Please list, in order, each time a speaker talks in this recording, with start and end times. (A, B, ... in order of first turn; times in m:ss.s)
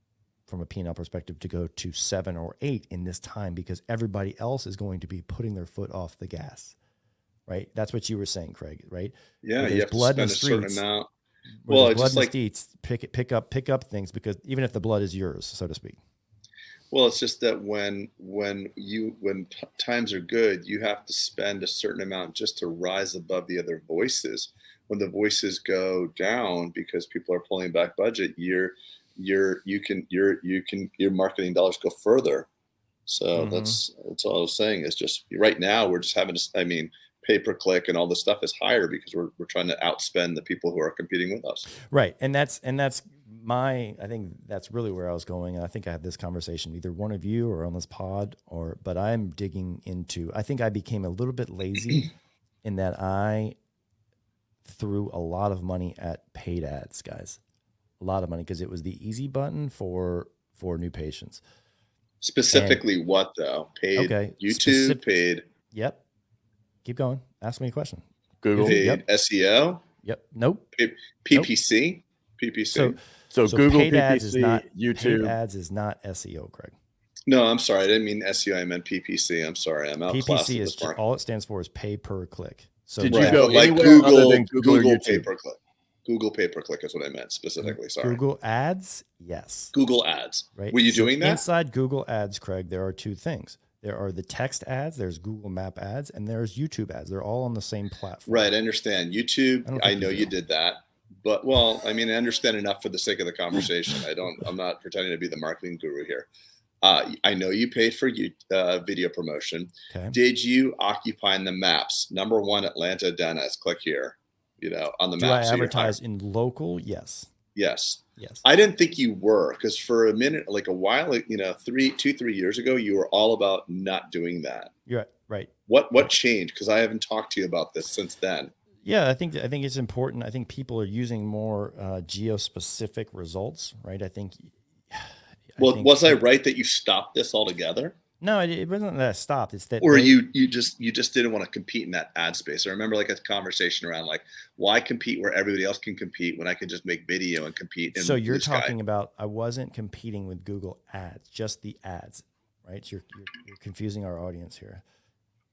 0:00.5-0:06.8 A
0:07.5-0:10.8 A
0:09.4-0:11.1 B
0:11.6-0:16.0 A
0:11.7-0:12.3 B
0:16.9-0:32.5 B
0:33.1-0:41.7 B
0:33.3-0:33.8 A
0:41.8-0:52.1 A
0:52.6-0:53.6 A
0:54.6-0:57.4 A
0:58.0-1:01.4 A
1:02.2-1:05.4 B
1:02.5-1:02.8 A
1:04.0-1:05.0 A
1:05.7-1:06.0 A
1:06.8-1:08.0 A
1:08.4-1:08.8 C
1:08.6-1:09.0 A
1:08.6-1:09.8 B
1:10.0-1:10.7 A
1:10.8-1:13.0 B
1:12.7-1:16.7 A
1:13.3-1:15.3 C
1:17.3-1:21.0 B
1:20.1-1:23.6 A
1:23.0-1:25.3 C
1:23.0-1:28.2 B
1:27.6-1:29.7 A
1:29.7-1:31.4 B
1:30.5-1:38.5 A
1:38.3-1:46.3 B
1:39.6-1:40.3 A
1:46.8-1:56.0 B
1:49.9-1:50.2 A
1:55.2-1:57.3 A
1:57.5-2:04.7 B
1:58.2-1:58.4 A
2:04.9-2:05.5 A
2:05.7-2:08.5 B
2:08.8-2:16.2 A
2:15.6-2:18.0 B
2:18.2-2:20.2 A
2:19.8-2:28.7 B
2:27.9-2:34.8 A